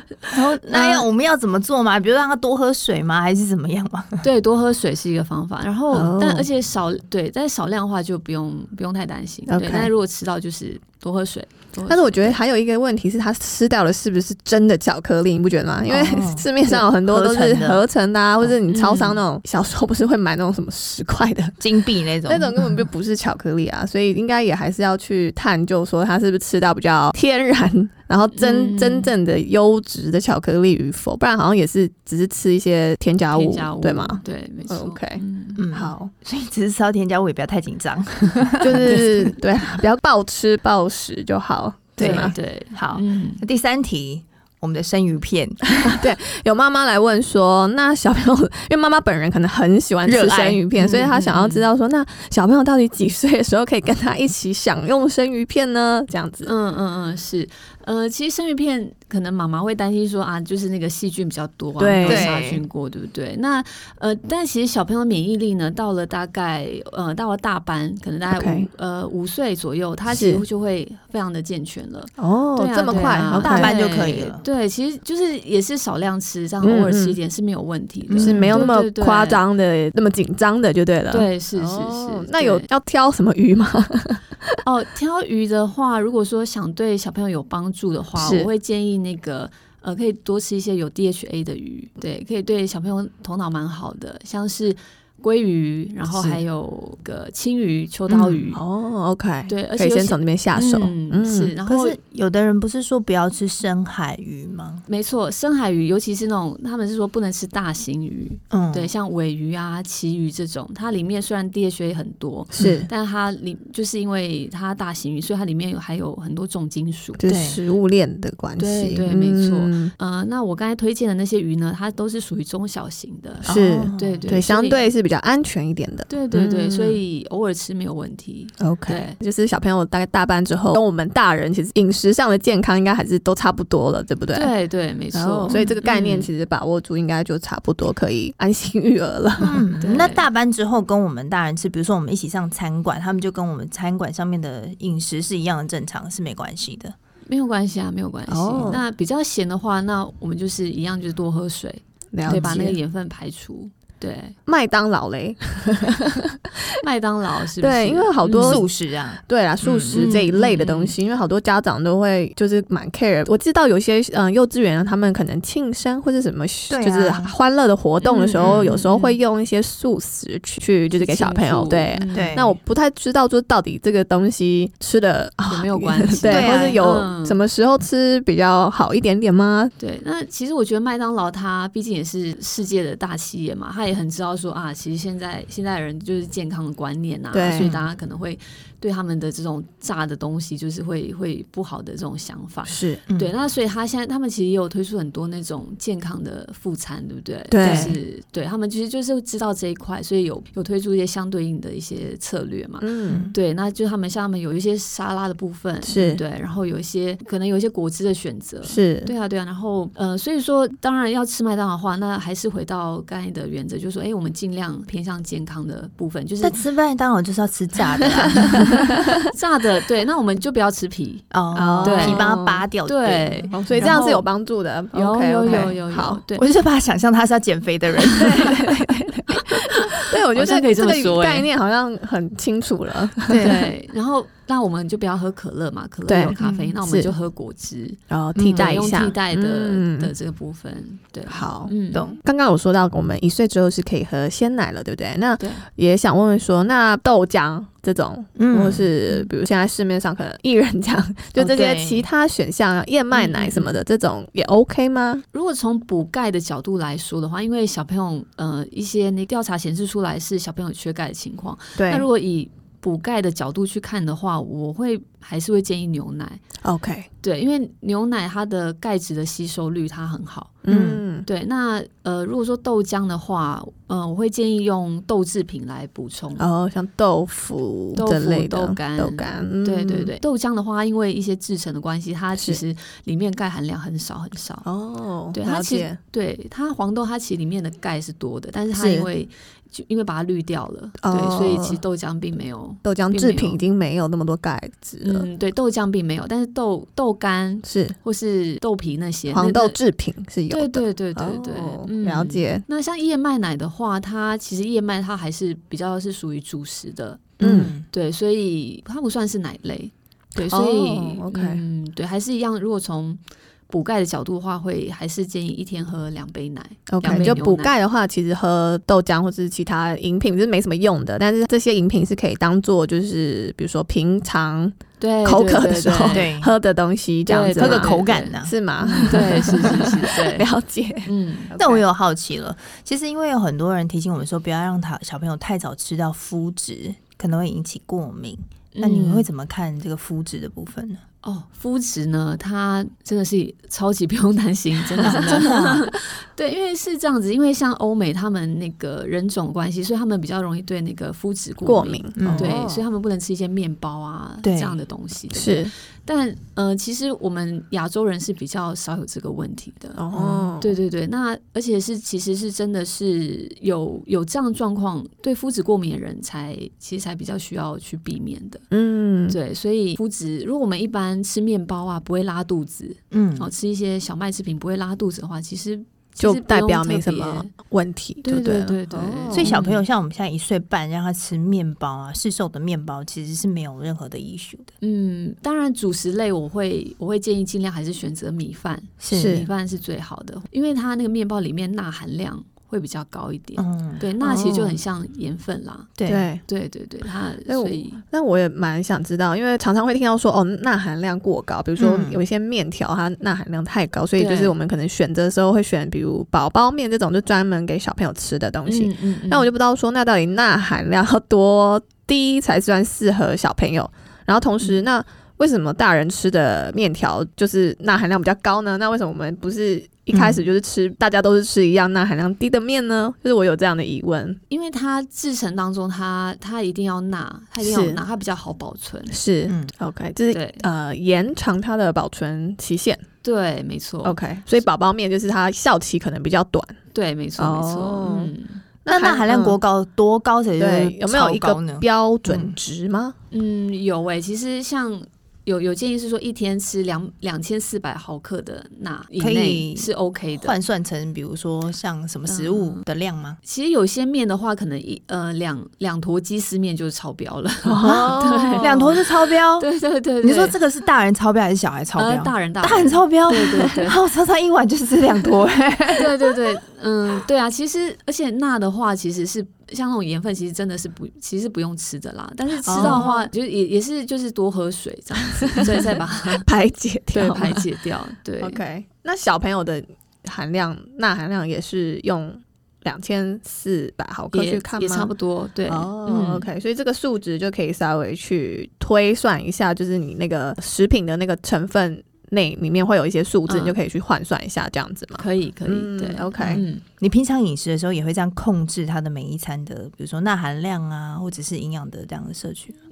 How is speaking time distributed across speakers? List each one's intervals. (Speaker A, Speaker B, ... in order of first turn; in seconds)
Speaker A: 0.2-1.1, 4.2-12.4, 18.7-19.2, 28.3-29.2, 33.3-35.6, 42.0-43.5, 50.8-51.7, 56.4-79.5, 81.1-82.7, 84.6-98.6, 99.5-102.0, 104.9-117.2, 118.6-124.8, 126.1-129.2, 134.3-136.3, 139.8-140.3, 147.3-154.4, 156.8-158.6, 159.9-161.0, 168.0-169.2, 170.9-172.4, 175.5-177.4, 179.8-216.6, 218.4-218.8, 219.3-221.3, 221.8-222.3, 222.8-224.0, 224.9-226.4, 230.3-231.5, 233.4-238.0, 238.5-242.2, 245.4-245.7, 253.1-253.8, 255.3-266.4, 267.2-270.5, 271.2-276.5, 278.0-284.7, 285.3-293.6, 295.0-299.8, 300.5-317.8, 325.0-326.4, 327.2-330.5, 331.1-331.6, 338.8-339.3, 341.2-360.0, 360.6-368.6, 369.3-377.5, 378.2-379.9, 384.8-395.9, 396.4-398.0, 404.2-404.6, 408.7-409.5, 414.6-414.9, 424.5-429.2, 430.3-430.6, 433.2-434.6, 436.9-438.6, 443.3-450.6, 452.2-452.9, 453.4-460.6, 462.0-464.0, 465.9-476.5, 477.1-478.6, 484.3-486.5, 493.5-493.8, 495.2-496.8
Speaker B: 0.3-4.2, 15.9-17.8, 21.6-22.8, 35.6-39.3, 42.0-45.9, 50.0-50.6, 62.0-62.6, 73.4-74.5, 78.1-78.7, 96.1-96.4, 98.1-98.5, 101.7-104.8, 108.5-108.9, 112.6-112.8, 117.3-117.6, 123.5-124.4, 139.4-146.9, 158.3-160.2, 166.7-167.3, 168.4-168.7, 172.1-172.6, 176.3-176.8, 187.5-187.9, 193.1-193.3, 197.6-198.0, 203.1-203.3, 216.4-218.7, 221.3-224.3, 225.5-225.7, 226.3-228.7, 233.3-233.7, 236.4-236.8, 238.3-238.9, 241.9-242.2, 248.3-248.9, 251.3-252.1, 270.7-271.0, 307.4-307.9, 317.1-317.4, 326.1-326.5, 327.6-329.2, 331.6-341.0, 345.0-345.9, 352.2-352.8, 354.4-354.8, 360.1-360.6, 373.1-373.5, 379.3-384.7, 389.0-389.5, 393.6-394.1, 396.0-396.3, 401.8-402.2, 420.1-420.4, 429.5-429.7, 438.9-442.6, 449.2-453.4, 457.8-459.7, 460.2-466.1, 472.7-473.2, 496.4-502.8
Speaker C: 5.9-6.5, 9.5-9.9, 11.9-21.6, 22.2-35.2, 35.7-36.1, 38.6-42.3, 45.7-56.5, 61.8-62.3, 68.3-68.7, 70.1-70.4, 72.2-73.8, 76.6-77.2, 78.2-84.6, 88.2-88.5, 98.5-101.5, 112.5-112.9, 117.2-119.9, 123.5-127.0, 128.6-134.5, 135.1-139.7, 148.3-148.8, 152.1-152.8, 154.5-156.4, 157.6-158.7, 159.2-179.7, 187.3-187.7, 192.7-193.0, 197.5-198.0, 202.8-203.3, 205.8-206.2, 208.6-209.1, 221.5-222.7, 223.5-226.2, 228.0-233.6, 236.1-237.1, 238.1-240.1, 241.3-255.2, 261.8-262.1, 266.6-267.1, 270.6-271.3, 276.4-280.1, 282.4-282.6, 284.6-286.0, 288.7-289.1, 291.0-291.8, 292.8-295.3, 297.6-298.0, 299.3-302.6, 307.4-307.7, 310.4-311.6, 316.9-331.8, 351.6-352.8, 355.3-355.7, 360.0-360.7, 368.7-369.4, 376.2-379.5, 389.2-389.4, 394.2-394.8, 396.1-396.4, 397.5-424.4, 427.6-428.0, 429.1-433.0, 434.0-436.8, 437.4-438.3, 438.9-439.6, 440.6-443.2, 457.6-458.9, 472.6-473.2, 475.5-477.7, 478.4-485.1, 485.7-496.6